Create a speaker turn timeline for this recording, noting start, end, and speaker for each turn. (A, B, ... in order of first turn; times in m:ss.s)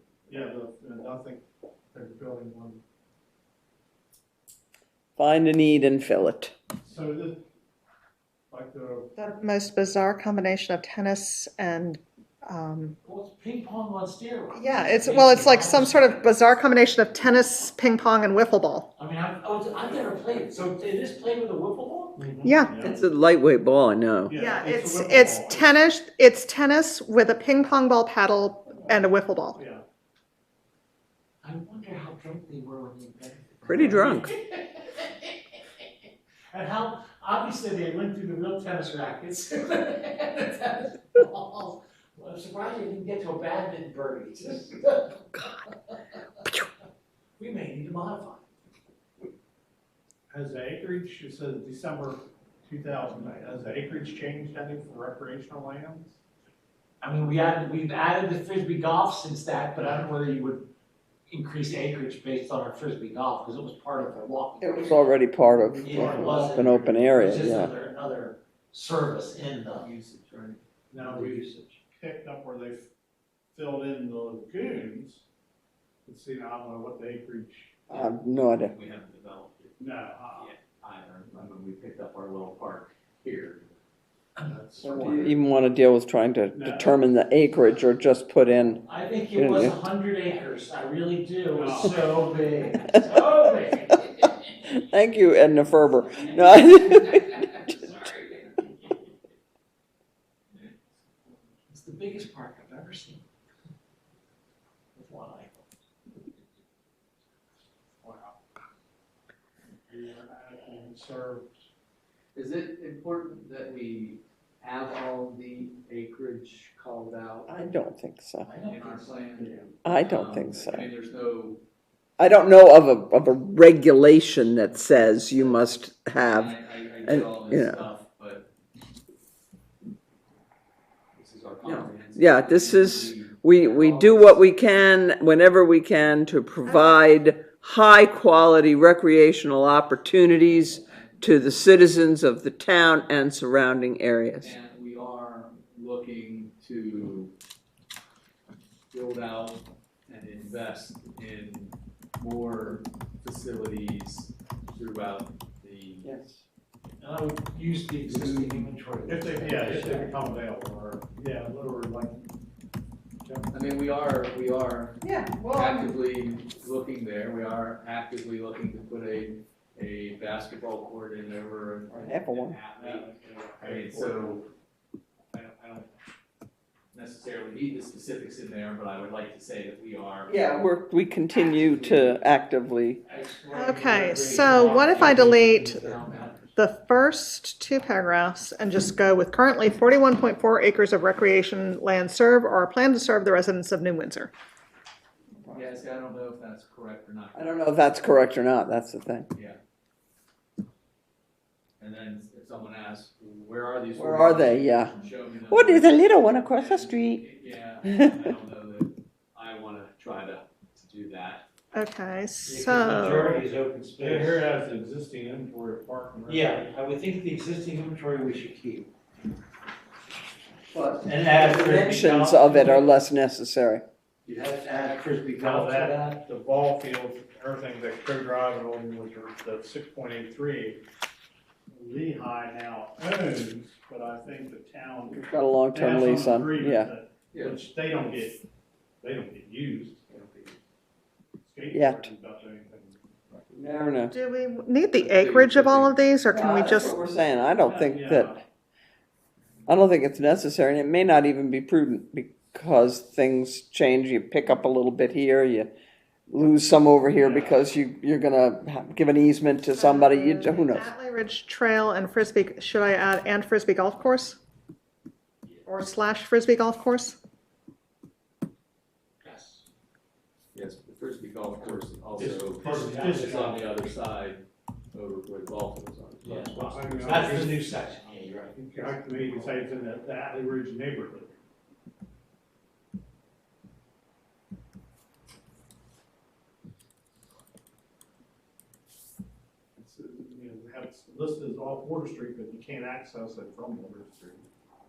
0:00.3-0:02.8 A
0:05.2-0:06.5 B
0:06.8-0:07.4 A
0:08.5-0:09.1 A
0:09.2-0:13.0 C
0:13.0-0:16.3 D
0:14.5-0:18.9 C
0:19.0-0:22.3 D
0:22.2-0:23.0 A
0:22.4-0:22.8 C
0:22.8-0:24.3 B
0:24.2-0:25.8 A
0:24.3-0:29.6 C
0:29.6-0:29.8 A
0:31.4-0:35.4 D
0:33.6-0:34.3 B
0:36.5-0:46.4 D
0:47.4-0:48.4 D
0:50.3-0:56.2 A
0:57.0-1:00.6 D
1:01.3-1:05.0 D
1:04.6-1:07.7 B
1:05.8-1:07.2 A
1:05.8-1:09.9 D
1:09.8-1:11.7 E
1:10.9-1:11.3 A
1:11.0-1:11.6 D
1:11.9-1:12.9 A
1:13.5-1:15.2 A
1:16.0-1:17.8 A
1:17.9-1:18.7 B
1:17.9-1:19.8 E
1:19.8-1:20.5 A
1:20.3-1:23.8 E
1:24.4-1:25.3 A
1:24.7-1:25.3 E
1:24.8-1:28.8 B
1:26.5-1:26.9 A
1:28.9-1:34.5 D
1:29.4-1:29.8 B
1:31.5-1:32.0 A
1:34.6-1:37.2 B
1:36.0-1:38.7 D
1:41.7-1:43.2 D
1:44.9-1:45.6 D
1:48.0-1:48.4 A
1:49.9-1:51.6 A
1:52.3-1:57.5 E
1:57.5-1:58.5 B
1:58.4-1:59.5 D
1:58.6-2:01.6 E
1:59.8-2:00.9 B
2:02.2-2:06.5 B
2:05.0-2:08.5 E
2:07.0-2:07.8 B
2:11.1-2:14.4 E
2:11.6-2:24.5 B
2:16.6-2:17.1 C
2:24.4-2:27.3 E
2:28.9-2:36.0 E
2:36.0-2:36.4 B
2:37.0-2:40.0 D
2:38.1-2:38.5 E
2:39.0-2:42.3 A
2:43.2-2:43.5 A
2:43.5-2:45.0 E
2:45.0-2:45.8 B
2:45.3-2:45.7 C
2:45.5-2:53.1 E
2:51.9-2:52.6 B
2:52.8-2:54.4 A
2:53.6-2:54.4 E
2:55.3-2:55.9 E
2:56.9-3:00.4 E
3:00.3-3:03.0 B
3:01.5-3:02.2 E
3:03.1-3:06.6 D
3:03.5-3:05.9 C
3:04.8-3:05.1 E
3:06.6-3:14.3 C
3:15.5-3:17.7 E
3:17.3-3:19.3 B
3:19.3-3:19.6 E
3:21.8-3:31.4 E
3:24.0-3:24.9 B
3:25.5-3:27.2 B
3:27.8-3:28.3 B
3:31.7-3:33.5 C
3:32.4-3:34.4 D
3:34.0-3:36.7 A
3:36.3-3:38.9 D
3:40.7-3:43.8 B
3:41.0-3:42.9 D
3:44.2-3:46.2 D
3:45.4-3:50.8 A
3:51.7-3:58.4 A
3:55.1-3:56.9 B
3:57.3-3:57.6 E
3:59.0-4:00.5 A
4:01.4-4:03.0 A
4:01.7-4:02.1 B
4:03.5-4:04.1 B
4:04.1-4:07.0 C
4:04.9-4:05.9 E
4:06.3-4:08.4 B
4:07.6-4:08.4 A
4:09.7-4:15.7 B
4:16.3-4:20.9 B
4:17.1-4:17.6 A
4:19.7-4:24.4 C
4:25.6-4:27.2 C
4:29.2-4:29.6 D
4:30.5-4:36.6 E
4:32.2-4:33.6 A
4:32.6-4:33.4 D
4:36.2-4:39.4 D
4:36.3-4:37.6 A
4:38.5-4:41.3 A
4:49.8-4:54.5 A